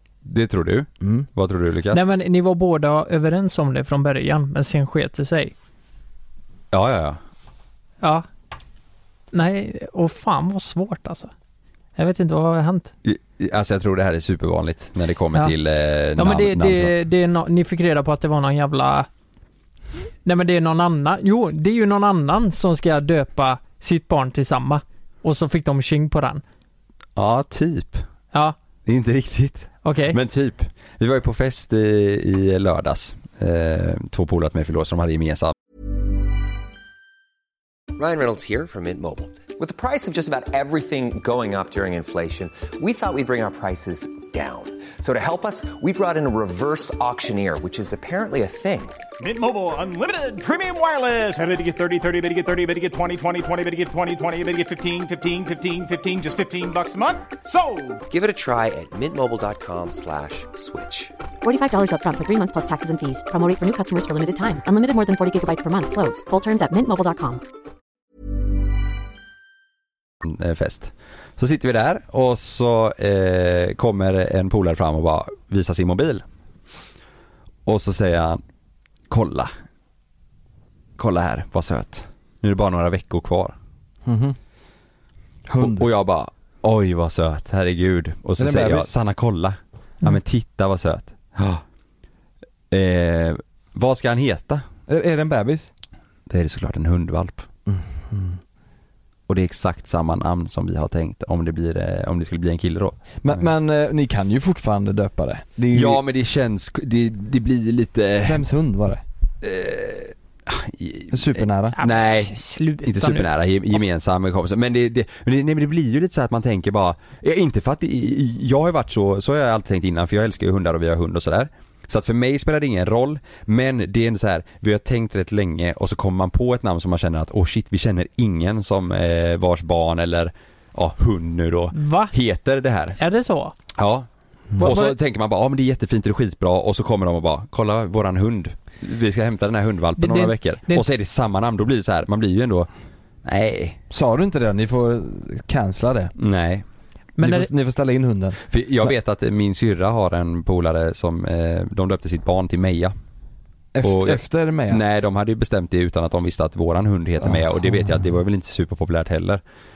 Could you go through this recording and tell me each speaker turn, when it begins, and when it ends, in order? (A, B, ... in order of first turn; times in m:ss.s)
0:00.2-0:02.0 A
0:01.0-0:01.3 B
0:01.9-0:05.5 C
0:06.7-0:07.2 A
0:08.0-0:08.2 C
0:09.3-0:11.3 C
0:12.0-0:12.9 C
0:13.0-0:16.9 A
0:16.2-0:19.1 C
0:20.2-0:26.4 C
0:27.2-0:28.0 A
0:28.8-0:35.5 A
0:29.8-0:30.2 C
0:38.0-0:49.0 D
0:49.2-0:58.0 E
0:58.1-1:01.1 D
1:01.4-1:07.4 F
1:10.2-1:16.2 A
1:17.6-1:18.4 A
1:19.1-1:19.5 A
1:21.0-1:23.5 A
1:24.0-1:24.4 B
1:25.4-1:25.9 B
1:25.6-1:31.6 A
1:28.4-1:28.9 B
1:32.7-1:34.6 A
1:34.9-1:35.7 B
1:36.3-1:37.5 A
1:37.7-1:38.4 B
1:39.3-1:43.4 A
1:43.2-1:46.0 B
1:45.7-1:48.4 A
1:48.2-1:49.0 B
1:49.4-2:13.0 A
1:51.1-1:51.8 B
1:51.8-1:53.3 C
2:11.7-2:12.1 C
2:13.0-2:13.5 C
2:13.8-2:22.7 A
2:14.6-2:14.9 C
2:20.0-2:20.8 C
2:23.2-2:23.8 A
2:23.9-2:26.1 B
2:26.2-2:26.6 A
2:27.2-2:27.5 C
2:27.2-2:28.9 B
2:28.5-2:32.9 A
2:33.7-2:34.8 B
2:33.8-2:39.4 A
2:37.2-2:38.0 B